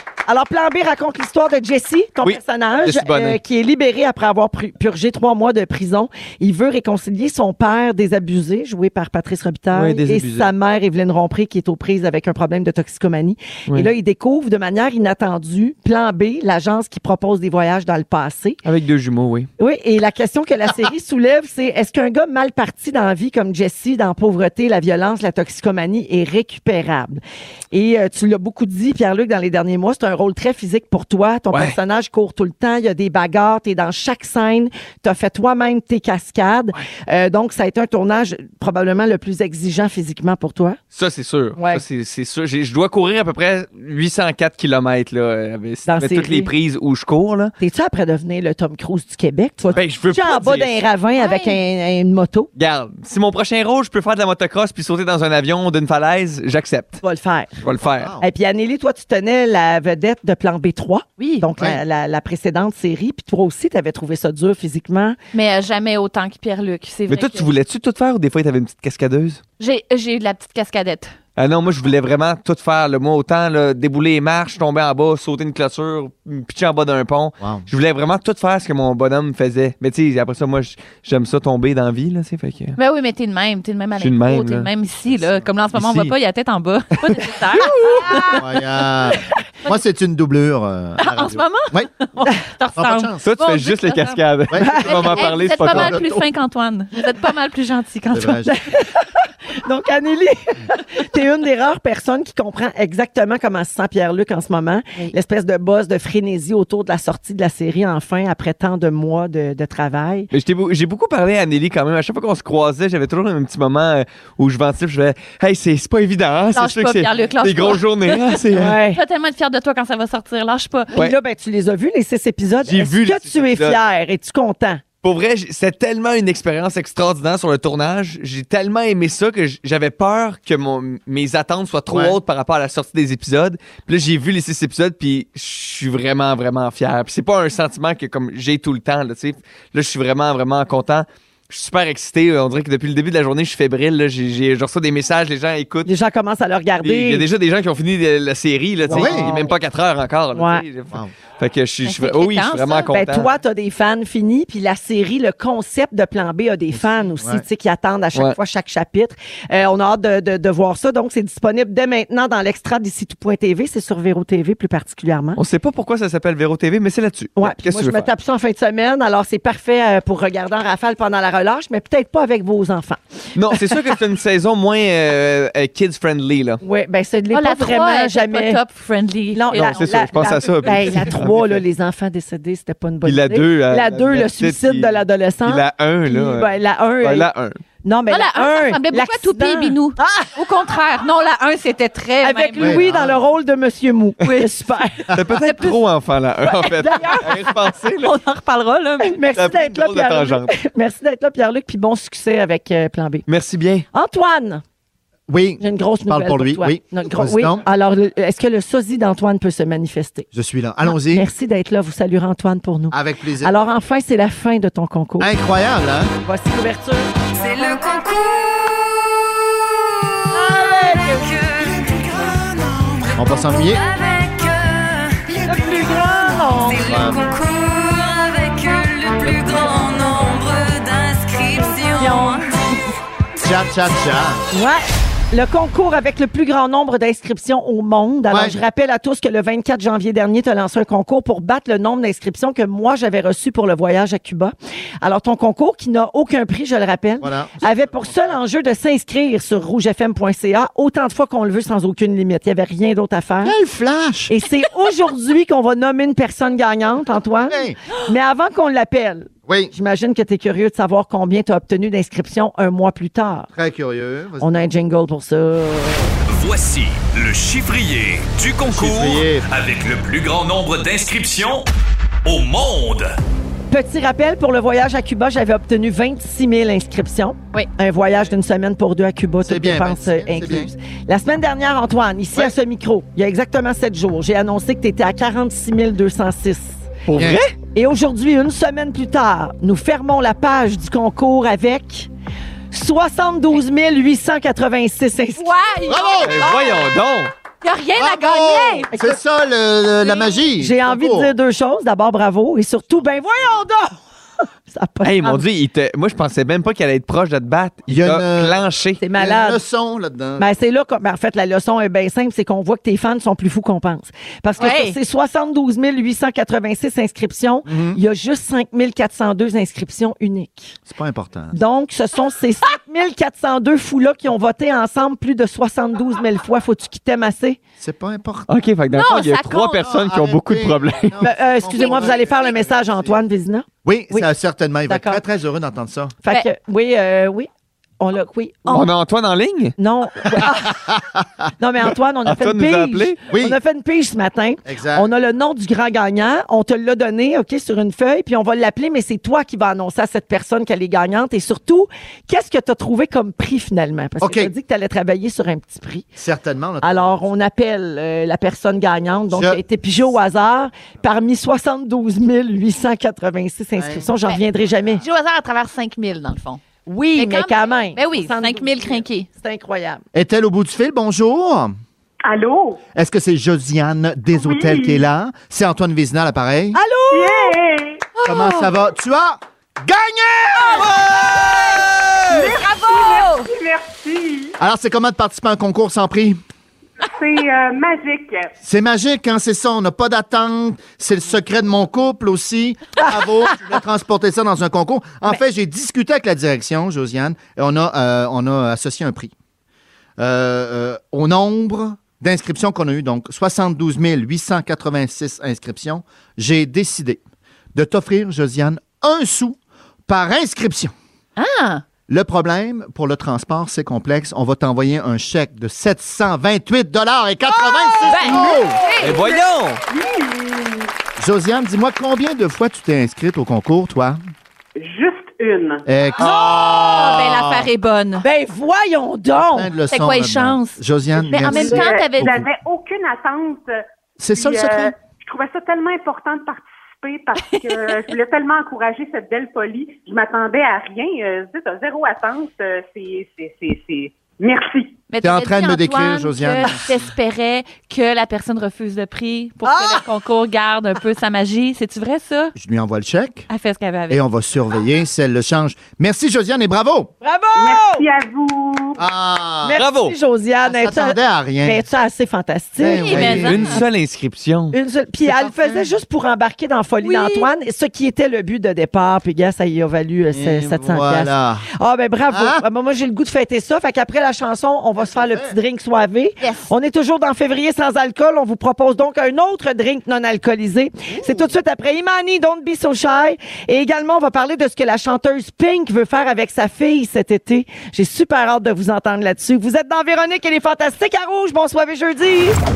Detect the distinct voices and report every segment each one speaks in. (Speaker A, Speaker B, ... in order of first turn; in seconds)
Speaker A: 0.3-18.6, 19.6-40.8, 41.6-41.8, 45.9-46.5, 47.6-52.5, 57.0-57.6, 58.2-65.2, 98.5-110.3, 118.5-119.0, 120.9-124.8, 145.8-147.3, 148.8-149.6, 150.3-150.6, 152.9-165.4, 167.4-173.8, 176.6-178.6, 179.3-187.3, 187.8-190.3, 192.2-195.1, 196.8-197.2, 199.0-203.2, 203.9-204.6, 205.6-210.3, 211.0-215.3, 216.2-217.1, 220.3-221.2, 225.4-226.8, 232.0-232.8, 234.5-253.6, 254.3-263.5, 264.4-266.2, 273.7-287.0, 287.7-292.1, 292.7-295.5, 300.6-303.9, 304.7-305.4, 309.0-309.6, 310.4-320.8, 321.5-327.6, 331.2-334.3, 334.9-335.2, 336.2-337.5, 338.0-338.9, 339.8-340.8, 341.6-356.1, 356.8-365.0, 366.9-370.0, 376.8-377.5, 418.1-418.6, 428.2-429.7, 449.6-450.0, 457.2-458.1, 459.6-463.4, 464.7-492.6
Speaker B: 2.2-3.4, 9.7-10.5, 18.6-19.5, 31.5-31.8, 40.9-47.5, 49.7-50.9, 52.6-57.0, 57.6-58.1, 67.1-69.4, 71.4-82.8, 84.0-84.7, 85.8-86.1, 93.2-96.1, 110.3-118.8, 122.6-123.8, 125.0-145.9, 146.8-153.3, 165.4-168.1, 173.4-176.6, 179.5-181.6, 183.1-187.6, 195.1-198.1, 199.3-200.5, 203.3-203.9, 287.1-287.5, 296.2-297.3, 305.0-309.0, 328.5-331.2, 338.7-339.8, 342.2-343.2, 419.0-419.8, 459.8-460.1, 463.2-464.8
Speaker C: 51.2-51.6, 61.2-61.5, 65.3-67.5, 69.6-71.1, 82.8-88.4, 91.0-94.2, 94.9-98.5, 116.5-118.4, 118.9-120.9, 151.9-152.9, 177.3-181.0, 188.1-192.8, 195.4-195.8, 196.8-197.4, 198.0-199.2, 295.4-296.7, 297.6-298.9, 314.6-315.0, 328.9-329.9, 331.7-332.1, 364.9-366.6, 367.2-369.3, 378.2-378.7, 382.3-383.5, 411.4-411.8, 418.1-419.1, 426.2-428.2, 429.9-432.4, 437.4-437.9, 445.1-452.5, 453.5-454.2, 462.9-463.8, 467.0-467.5, 476.4-476.7
Speaker D: 58.0-58.3, 77.4-77.7, 85.1-85.5, 88.3-91.9, 92.8-93.3, 94.5-96.2, 98.1-98.6, 131.9-132.2, 148.9-149.3, 156.7-157.4, 192.6-193.3, 205.3-207.7, 210.3-211.3, 212.9-213.7, 215.2-216.1, 223.1-223.8, 226.8-227.2, 233.4-234.4, 238.3-238.6, 247.2-248.4, 253.4-254.3, 257.5-257.8, 259.5-259.7, 263.5-264.5, 268.6-269.5, 279.4-280.7, 287.1-287.4, 295.9-296.5, 298.0-301.3, 307.9-308.6, 309.2-310.5, 317.7-318.0, 320.9-321.6, 327.8-328.5, 329.8-333.2, 333.9-336.2, 343.3-343.6, 344.7-345.1, 354.2-354.5, 356.2-357.3, 359.3-359.6, 363.8-364.1, 370.1-371.8, 372.9-376.8, 378.2-382.2, 384.6-386.4, 388.6-399.3, 400.2-407.2, 407.8-410.9, 412.1-418.8, 421.2-424.2, 425.9-427.7, 429.4-432.5, 434.2-434.9, 445.2-447.0, 452.6-453.5, 454.1-457.1, 459.0-459.8, 460.7-461.9, 462.8-463.8, 465.3-465.9, 470.3-471.7, 472.3-472.6, 475.1-475.6, 481.1-481.5
Speaker E: 217.3-219.0, 220.5-222.1, 223.2-225.3, 226.5-232.5
Speaker F: 266.3-271.7, 272.2-273.1
Speaker G: 372.2-372.8, 374.3-375.0, 377.1-378.1, 382.3-384.6, 387.1-388.5, 418.2-420.9, 424.8-425.8, 431.4-445.0, 457.6-459.0